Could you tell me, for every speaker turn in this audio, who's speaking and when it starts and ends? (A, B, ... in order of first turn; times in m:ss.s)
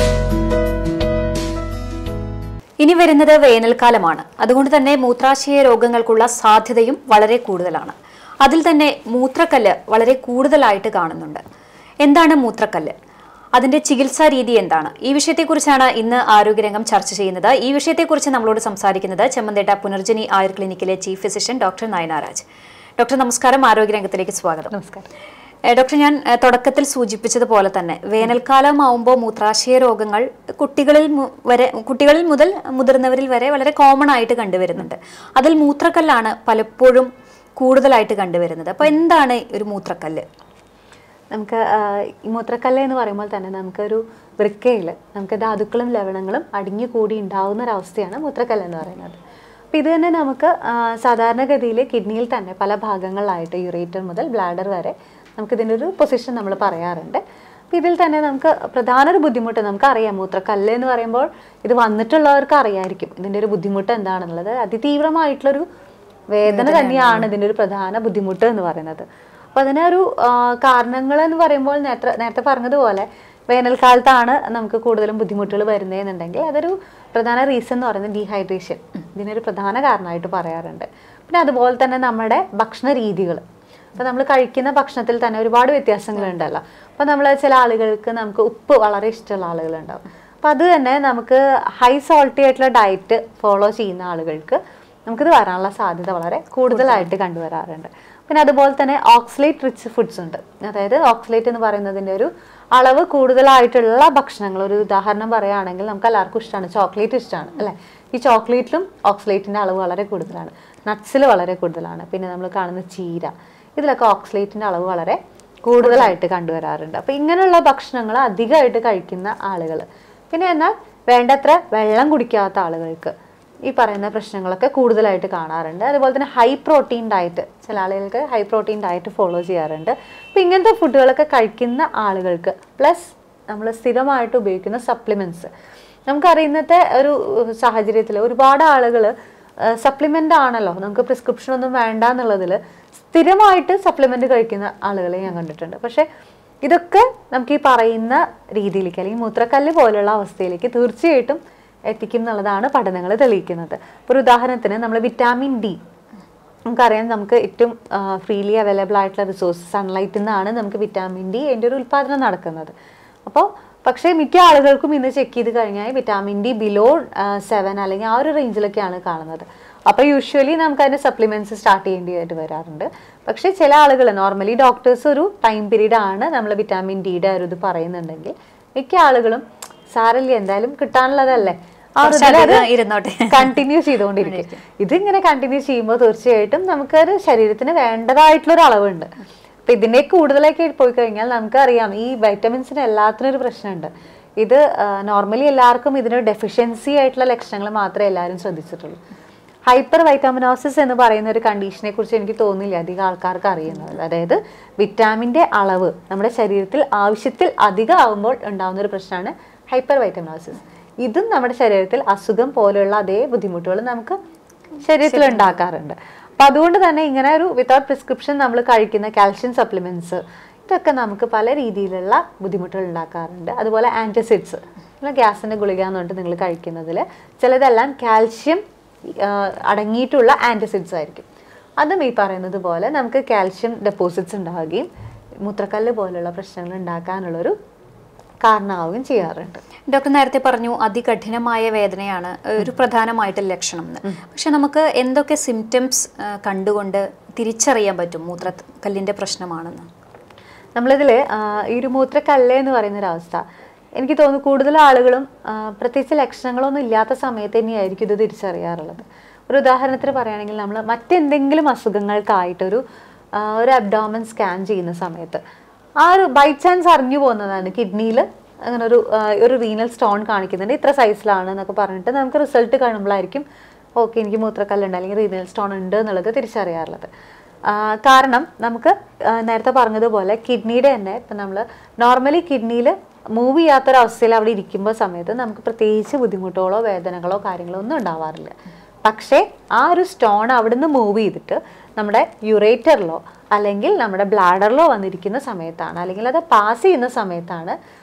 0:02.8-0:11.4 A
0:12.0-0:13.0 A
0:13.6-0:22.4 A
0:23.0-0:24.7 A
0:24.7-0:25.1 B
0:25.7-0:40.2 A
0:41.3-0:49.2 B
0:49.7-1:05.7 B
1:06.3-1:23.4 B
1:06.5-1:07.3 A
1:24.0-2:03.1 B
1:55.8-1:56.1 A
2:03.7-2:15.5 B
2:16.1-2:26.1 B
2:26.6-2:35.8 B
2:36.7-2:42.7 B
2:43.3-3:02.7 B
3:02.0-3:03.6 A
3:03.3-3:09.1 B
3:04.2-3:04.6 A
3:09.7-3:19.0 B
3:19.7-3:34.2 B
3:34.8-3:51.3 B
3:35.1-3:35.6 A
3:51.8-3:54.9 B
3:55.4-3:57.6 B
3:58.4-3:59.6 B
3:59.9-4:09.9 A
4:10.8-4:13.4 B
4:14.0-4:22.8 B
4:23.3-4:25.4 B
4:26.0-4:33.4 B
4:34.0-4:37.1 B
4:37.7-4:48.5 B
4:49.0-4:57.8 B